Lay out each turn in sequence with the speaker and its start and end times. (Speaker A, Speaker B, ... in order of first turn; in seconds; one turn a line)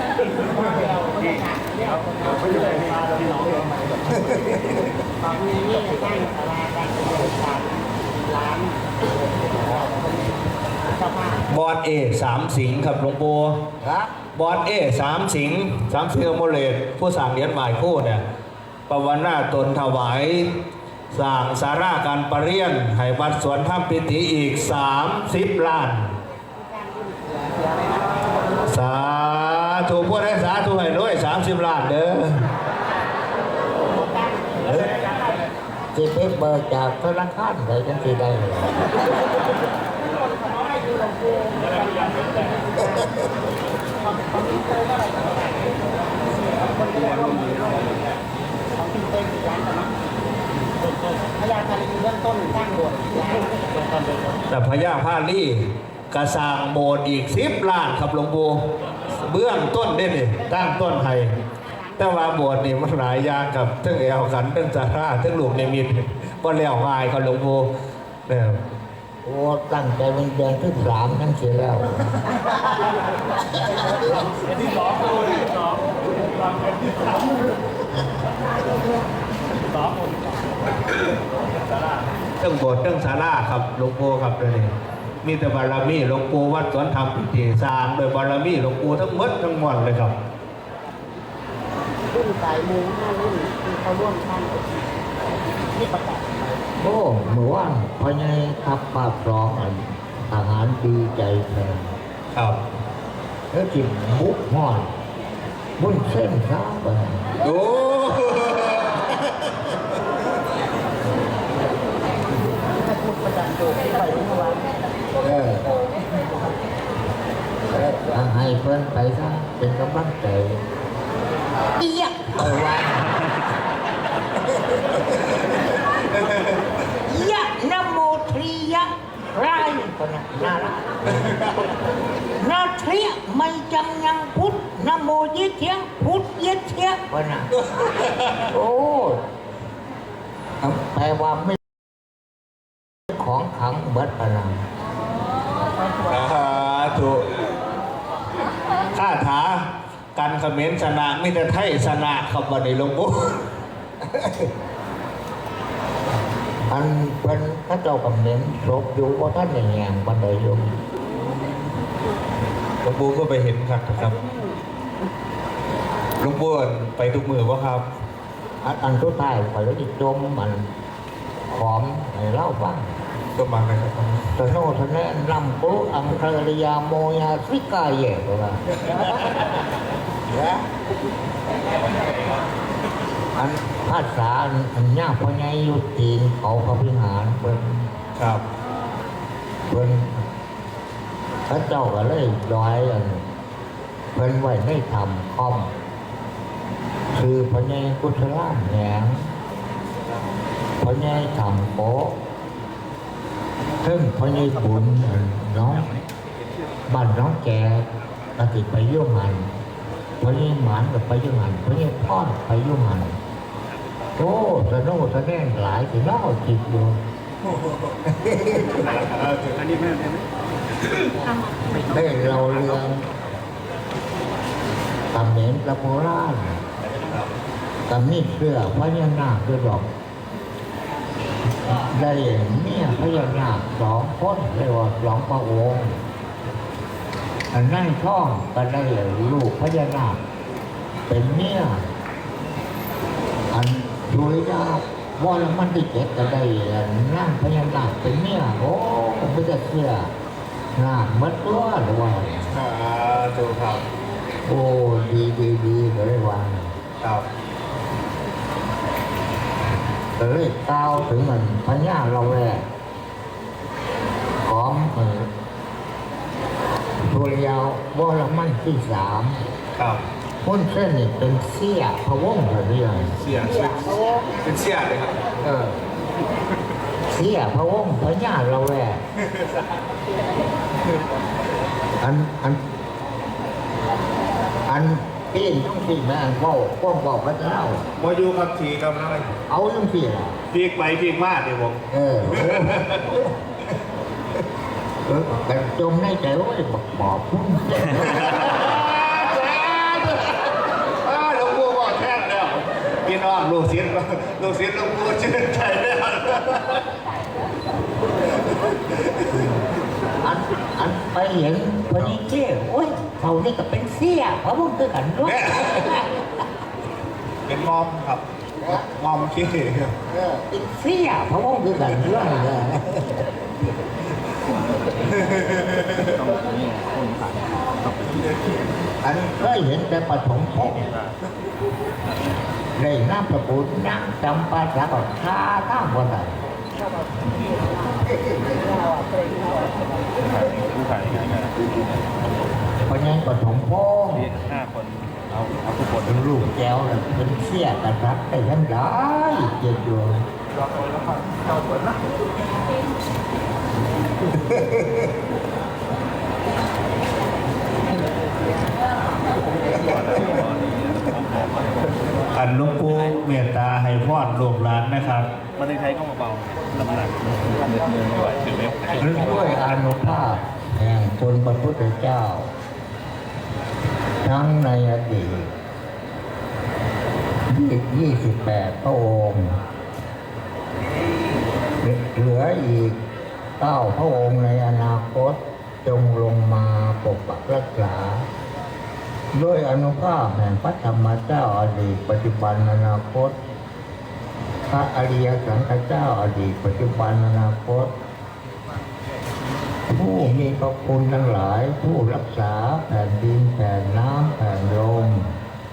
Speaker A: 0.5-3.5
Speaker A: 5.2-8.9
Speaker A: 9.5-10.3
Speaker A: 11.0-11.3
Speaker B: 11.5-13.6
Speaker C: 13.8-14.1
Speaker B: 14.3-18.2
Speaker B: 18.9-20.6
Speaker B: 21.1-26.1
Speaker A: 26.7-28.0
Speaker B: 28.6-32.5
Speaker A: 34.1-34.7
Speaker C: 35.9-38.9
Speaker A: 40.4-43.1
Speaker A: 44.0-45.8
Speaker A: 46.5-48.0
Speaker A: 48.8-49.9
Speaker A: 51.4-53.8
Speaker B: 54.5-61.3
Speaker B: 62.0-67.7
Speaker B: 68.3-68.6
Speaker C: 69.2-72.2
Speaker B: 82.4-90.2
Speaker A: 92.1-94.8
Speaker A: 95.8-96.3
Speaker C: 96.8-101.9
Speaker B: 102.3-102.6
Speaker C: 103.5-104.9
Speaker C: 105.8-107.3
Speaker B: 107.4-109.1
Speaker A: 112.8-114.6
Speaker C: 115.2-115.8
Speaker C: 117.7-120.6
Speaker C: 121.7-123.3
Speaker C: 127.1-131.5
Speaker C: 132.4-137.5
Speaker C: 138.4-139.2
Speaker C: 140.6-141.6
Speaker C: 143.1-144.6
Speaker B: 146.0-147.3
Speaker B: 148.9-153.5
Speaker B: 154.1-154.5
Speaker C: 156.7-160.8
Speaker B: 162.8-164.2
Speaker B: 166.2-167.8
Speaker C: 168.6-170.7
Speaker C: 171.5-172.9
Speaker B: 173.3-174.3
Speaker C: 174.3-179.5
Speaker C: 183.3-187.9
Speaker B: 188.2-188.4
Speaker C: 189.7-190.2
Speaker C: 191.5-193.2
Speaker C: 194.1-195.7
Speaker C: 197.1-199.3
Speaker C: 200.8-202.1
Speaker C: 203.8-205.9
Speaker C: 206.9-207.8
Speaker C: 208.3-209.5
Speaker C: 210.2-213.1
Speaker C: 214.2-217.0
Speaker B: 218.5-219.7
Speaker C: 221.9-223.0
Speaker C: 225.1-226.6
Speaker C: 227.9-229.9
Speaker C: 231.7-236.0
Speaker C: 237.5-240.2
Speaker C: 241.1-241.8
Speaker C: 243.5-250.1
Speaker C: 250.8-252.5
Speaker B: 252.5-253.8
Speaker C: 254.5-256.7
Speaker B: 257.0-257.2
Speaker C: 260.2-262.6
Speaker C: 264.4-265.3
Speaker C: 267.1-269.4
Speaker B: 269.8-270.0
Speaker C: 270.4-273.1
Speaker B: 273.2-275.2
Speaker C: 275.4-275.8
Speaker C: 277.1-279.0
Speaker C: 282.0-282.6
Speaker C: 284.7-287.8
Speaker B: 288.0-289.3
Speaker C: 289.5-290.4
Speaker B: 290.5-293.3
Speaker C: 291.9-292.8
Speaker C: 295.1-298.4
Speaker B: 298.2-306.8
Speaker B: 308.9-309.4
Speaker C: 310.2-316.2
Speaker B: 315.2-315.7
Speaker B: 317.5-318.2
Speaker B: 318.8-319.9
Speaker C: 320.1-323.1
Speaker D: 326.3-327.3
Speaker C: 329.0-330.9
Speaker C: 332.8-336.4
Speaker A: 338.6-339.2
Speaker D: 340.4-341.4
Speaker C: 342.9-344.4
Speaker C: 346.0-350.2
Speaker B: 362.3-365.3
Speaker D: 365.7-366.3
Speaker D: 368.4-368.8
Speaker C: 368.9-372.5
Speaker C: 374.2-375.5
Speaker C: 377.5-379.6
Speaker C: 381.8-383.0
Speaker C: 383.6-388.2
Speaker C: 389.3-393.3
Speaker C: 394.7-397.9
Speaker C: 399.9-405.3